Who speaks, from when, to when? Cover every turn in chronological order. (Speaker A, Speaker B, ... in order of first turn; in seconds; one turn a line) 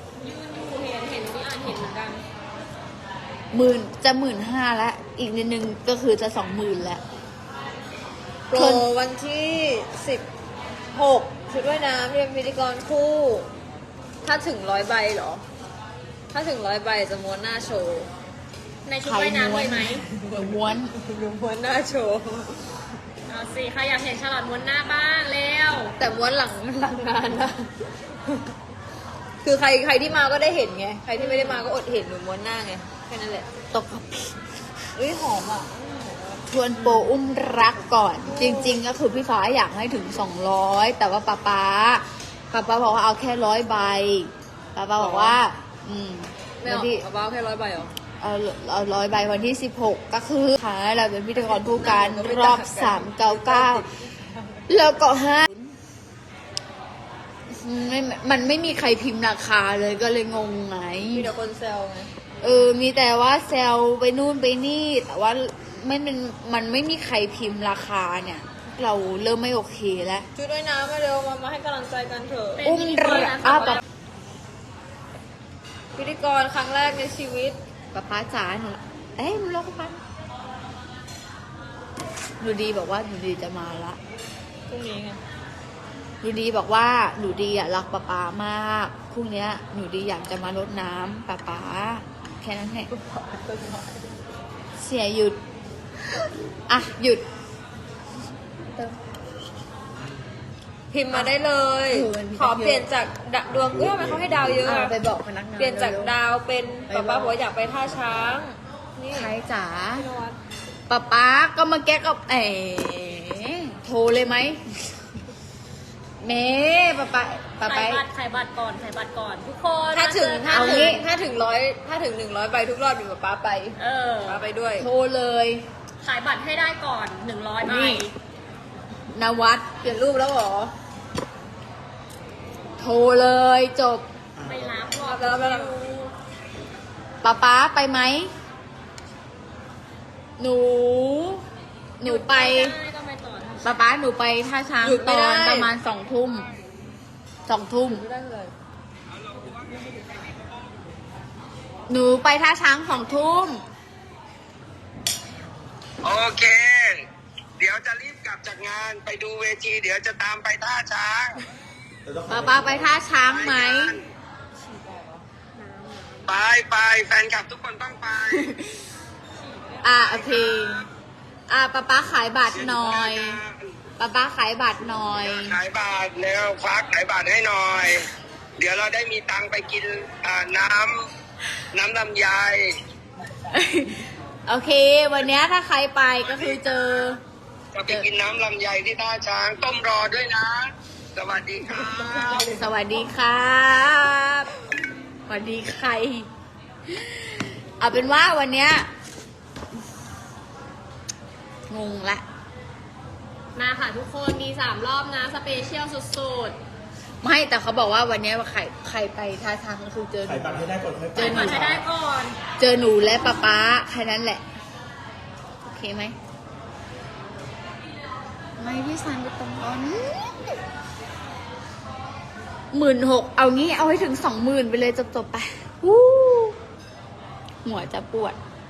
Speaker A: 0.2-2.2
Speaker B: 3.5-7.0
Speaker C: 8.5-10.2
Speaker B: 8.5-8.9
Speaker C: 10.9-13.5
Speaker C: 14.2-15.4
Speaker C: 16.3-18.1
Speaker A: 18.9-20.1
Speaker B: 19.0-20.9
Speaker C: 20.9-22.6
Speaker A: 23.3-25.9
Speaker C: 26.0-27.7
Speaker C: 29.4-33.5
Speaker A: 31.2-31.6
Speaker B: 33.7-34.4
Speaker C: 35.0-37.1
Speaker B: 36.5-47.0
Speaker C: 38.2-38.8
Speaker C: 45.0-45.4
Speaker C: 46.6-47.9
Speaker B: 48.2-53.9
Speaker C: 51.6-54.6
Speaker B: 54.7-55.7
Speaker B: 57.5-61.3
Speaker C: 61.1-62.1
Speaker B: 62.4-70.3
Speaker C: 70.3-72.7
Speaker A: 72.6-73.8
Speaker B: 72.6-73.8
Speaker C: 76.0-77.6
Speaker B: 77.9-80.0
Speaker B: 82.4-84.0
Speaker C: 84.7-85.2
Speaker B: 86.2-92.9
Speaker C: 92.9-94.0
Speaker B: 94.8-95.4
Speaker B: 96.7-97.2
Speaker D: 99.9-100.3
Speaker C: 100.9-105.0
Speaker B: 101.9-102.9
Speaker D: 103.5-104.7
Speaker B: 104.6-106.2
Speaker C: 105.6-109.3
Speaker B: 106.9-107.4
Speaker B: 109.1-110.0
Speaker A: 110.0-110.4
Speaker B: 110.9-114.6
Speaker B: 116.2-118.0
Speaker A: 117.6-121.1
Speaker C: 119.9-124.9
Speaker B: 120.5-121.0
Speaker A: 123.8-124.4
Speaker B: 124.8-125.7
Speaker A: 126.0-128.1
Speaker B: 127.7-128.0
Speaker B: 129.1-130.7
Speaker B: 132.8-134.1
Speaker D: 134.3-135.0
Speaker A: 134.4-136.1
Speaker C: 135.0-135.8
Speaker B: 137.2-138.3
Speaker B: 140.4-141.4
Speaker B: 142.0-142.8
Speaker A: 142.0-143.8
Speaker B: 143.6-146.5
Speaker C: 144.8-145.7
Speaker B: 147.5-148.1
Speaker C: 147.9-148.5
Speaker E: 149.2-150.5
Speaker B: 151.9-153.6
Speaker E: 156.0-157.0
Speaker E: 157.6-161.4
Speaker D: 162.1-163.0
Speaker B: 162.3-164.0
Speaker E: 163.2-164.0
Speaker C: 164.6-165.3
Speaker A: 165.5-166.3
Speaker E: 166.3-168.5
Speaker B: 168.3-168.6
Speaker A: 169.3-170.7
Speaker B: 169.8-170.8
Speaker B: 171.5-173.4
Speaker E: 172.5-173.5
Speaker B: 174.0-175.6
Speaker E: 175.2-178.0
Speaker E: 178.6-181.0
Speaker E: 181.7-182.7
Speaker B: 183.5-187.2
Speaker E: 187.8-190.7
Speaker E: 191.2-192.5
Speaker B: 192.4-194.5
Speaker B: 195.3-196.3
Speaker B: 196.9-198.9
Speaker B: 201.7-202.2
Speaker A: 203.6-206.6
Speaker B: 207.2-210.6
Speaker D: 210.2-211.8
Speaker B: 211.2-211.8
Speaker A: 211.2-212.4
Speaker B: 212.6-214.4
Speaker B: 215.7-216.2
Speaker B: 218.6-220.3
Speaker B: 222.7-226.6
Speaker B: 227.7-228.4